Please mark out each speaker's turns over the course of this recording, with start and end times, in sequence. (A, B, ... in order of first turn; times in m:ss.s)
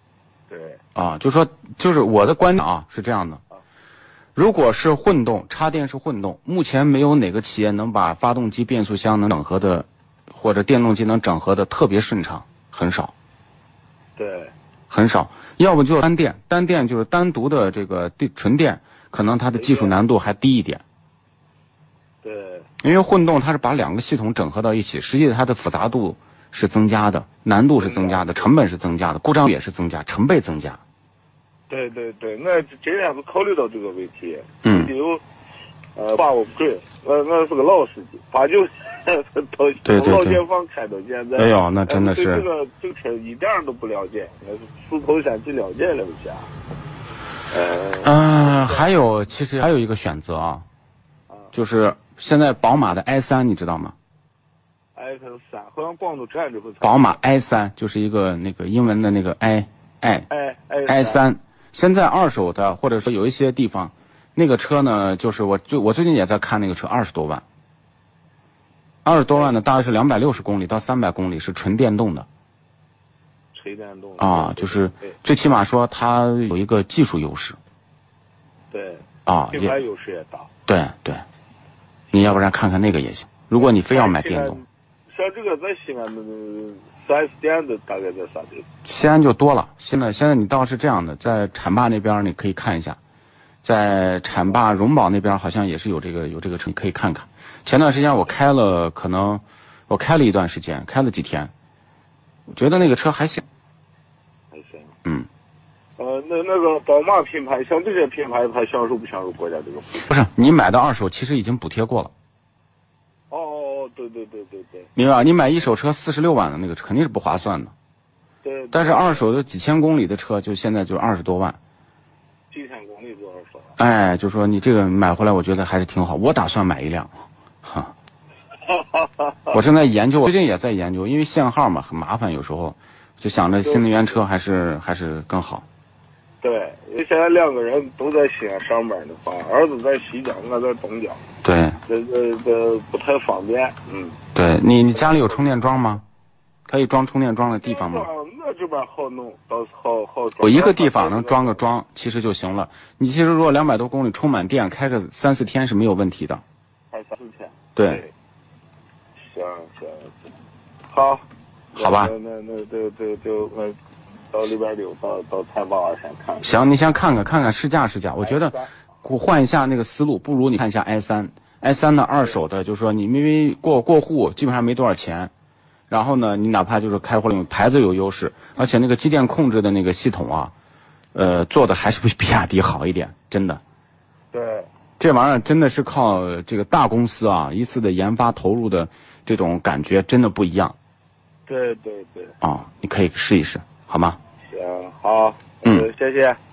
0:00.5-0:00.8 A
0:00.9-0:03.4 B
0:04.3-0:13.1 B
0:14.2-0:14.5 A
0:14.9-0:20.8 B
0:19.5-0:20.0 A
0:22.2-0:22.7 A
0:22.8-0:30.8 B
0:27.8-0:28.5 A
0:31.7-0:35.2 A
0:34.6-0:34.9 B
0:36.0-0:46.5 A
0:39.8-0:40.4 B
0:41.4-0:42.4 B
0:47.5-0:48.9 A
0:48.0-0:50.6 B
0:51.5-0:53.9 B
0:55.0-0:57.2 A
0:56.8-1:00.3 B
1:00.3-1:01.2 A
1:00.9-1:07.4 B
1:09.0-1:12.3 B
1:13.5-1:15.1 A
1:14.2-1:17.6 B
1:18.7-1:20.5 A
1:19.2-1:19.7 B
1:20.7-1:21.2 B
1:22.1-1:22.4 A
1:22.1-1:24.6 B
1:23.6-1:28.6 A
1:28.8-1:33.0 B
1:33.6-1:41.5 B
1:42.5-1:43.4 B
1:44.5-1:44.9 A
1:46.0-1:50.0 A
1:50.0-1:52.1 B
1:53.3-1:54.9 A
1:55.0-1:57.7 B
1:58.4-1:59.2 A
1:58.7-2:01.6 B
2:02.5-2:03.7 A
2:03.8-2:07.9 B
2:08.7-2:09.5 A
2:09.5-2:15.6 B
2:13.6-2:14.2 A
2:16.4-2:21.2 A
2:21.4-2:21.8 B
2:21.8-2:24.2 A
2:24.3-2:26.0 B
2:25.0-2:25.4 A
2:26.7-2:28.1 B
2:27.6-2:31.6 A
2:30.4-2:36.4 B
2:36.9-2:38.1 A
2:37.8-2:38.0 B
2:39.3-2:40.2 A
2:40.9-2:43.8 A
2:41.8-2:42.1 B
2:44.3-2:46.6 A
2:46.4-2:55.3 B
2:48.2-2:48.7 A
2:55.9-3:00.5 B
3:01.1-3:03.6 B
3:04.3-3:04.7 A
3:05.0-3:10.7 B
3:11.5-3:12.4 A
3:12.4-3:14.2 B
3:14.5-3:16.4 A